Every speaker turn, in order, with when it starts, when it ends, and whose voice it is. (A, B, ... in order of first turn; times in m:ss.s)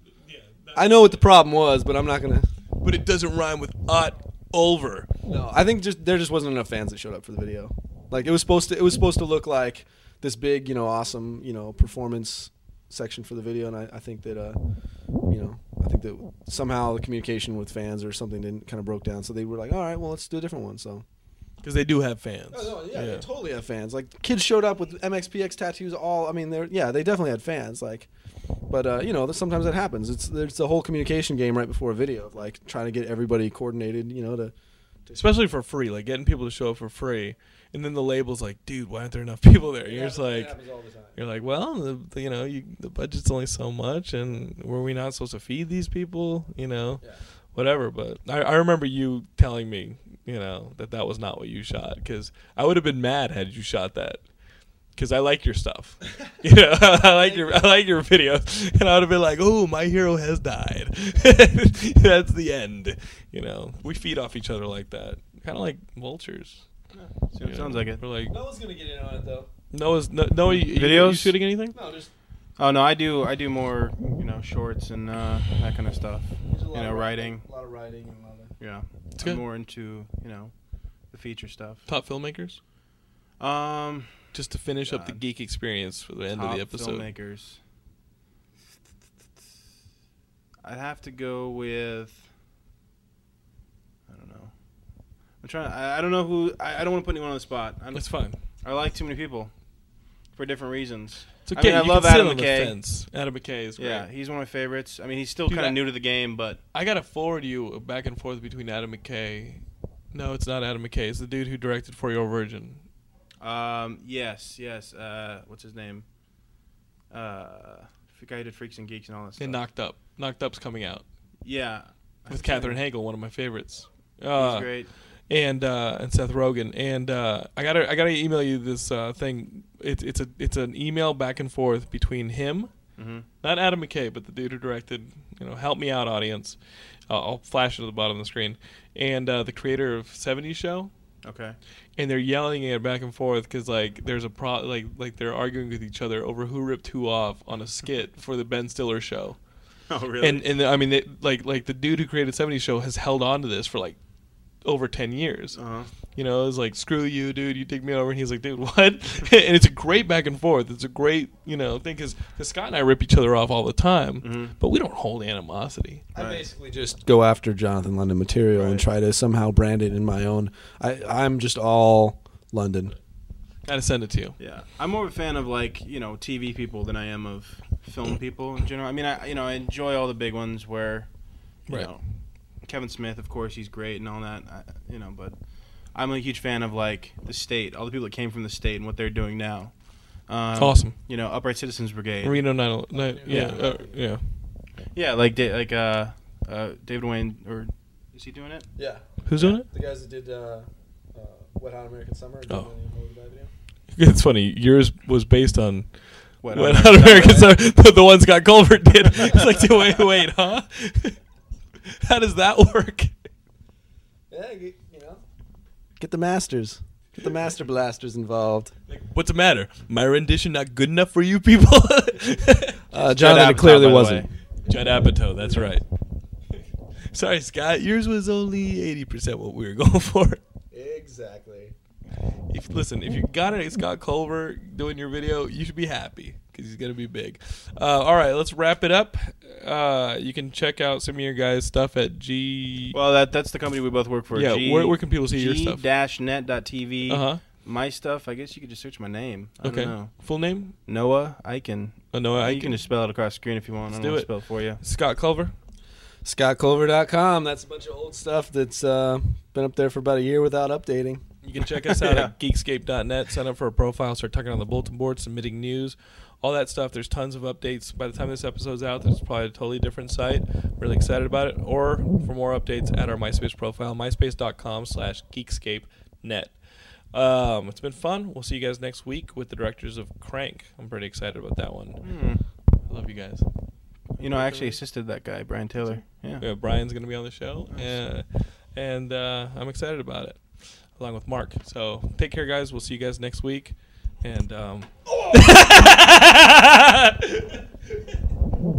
0:00.2-0:01.2 A
0:00.7-0:02.5 B
0:02.8-0:05.1 A
0:05.3-0:14.6 B
0:15.3-0:21.0 B
0:21.6-0:23.2 A
0:22.5-0:28.1 B
0:28.7-0:34.5 B
0:35.1-0:40.5 A
0:39.8-0:41.2 B
0:41.1-0:47.0 A
0:47.5-0:54.2 A
0:55.0-1:06.6 A
0:57.1-0:57.6 B
1:06.9-1:08.0 C
1:07.4-1:08.3 A
1:08.3-1:09.5 B
1:09.7-1:11.8 A
1:10.5-1:11.4 C
1:11.7-1:12.1 B
1:12.6-1:17.4 C
1:16.4-1:18.5 B
1:18.6-1:20.5 C
1:19.2-1:19.4 A
1:21.1-1:21.8 C
1:21.9-1:22.6 A
1:23.4-1:24.2 C
1:24.3-1:27.1 A
1:24.8-1:25.2 C
1:26.3-1:27.6 C
1:30.6-1:32.2 C
1:34.1-1:34.5 C
1:35.4-1:39.5 C
1:37.9-1:38.4 A
1:40.3-1:42.8 C
1:41.4-1:44.1 A
1:43.8-1:46.6 C
1:45.5-1:45.8 A
1:46.7-1:52.8 A
1:53.4-1:56.0 C
1:57.1-1:59.6 C
1:59.4-2:01.0 A
2:01.4-2:02.8 C
2:02.3-2:04.7 A
2:04.4-2:04.9 C
2:05.3-2:12.7 A
2:13.0-2:13.2 C
2:13.4-2:16.6 A
2:17.1-2:20.9 A
2:21.2-2:21.6 C
2:22.0-2:29.4 A
2:29.9-2:30.4 C
2:30.2-2:34.0 A
2:34.6-2:35.6 A
2:35.5-2:35.9 C
2:36.2-2:46.0 A
2:44.2-2:44.5 C
2:46.1-2:53.0 B
2:46.2-2:46.4 C
2:48.5-2:48.8 C
2:53.6-2:54.4 A
2:54.4-3:01.1 C
3:01.7-3:02.0 C
3:02.6-3:05.3 C
3:05.9-3:09.7 C
3:10.3-3:12.4 C
3:10.6-3:11.0 A
3:12.2-3:14.2 A
3:12.9-3:14.1 B
3:13.3-3:13.6 C
3:14.9-3:18.7 C
3:18.8-3:23.5 B
3:19.2-3:19.6 A
3:23.9-3:25.9 A
3:26.4-3:27.6 C
3:26.4-3:31.2 A
3:31.8-3:33.1 A
3:34.3-3:35.2 B
3:36.0-3:38.7 B
3:38.9-3:43.7 A
3:42.9-3:44.3 B
3:43.1-3:44.3 C
3:44.6-3:45.8 A
3:45.4-3:45.7 B
3:47.1-3:50.4 A
3:50.7-3:51.7 B
3:52.5-4:03.0 A
4:02.9-4:10.1 C
4:04.3-4:05.8 A
4:07.1-4:07.4 A
4:09.6-4:10.7 A
4:10.9-4:14.8 C
4:12.1-4:12.8 A
4:13.9-4:14.3 A
4:14.8-4:15.5 A
4:16.2-4:21.2 B
4:21.4-4:36.6 A
4:21.6-4:22.3 C
4:37.1-4:42.0 A
4:42.0-4:42.4 C
4:42.9-4:43.4 A
4:44.2-4:46.4 C
4:44.2-4:44.8 A
4:45.9-4:50.4 A
4:51.0-4:57.6 A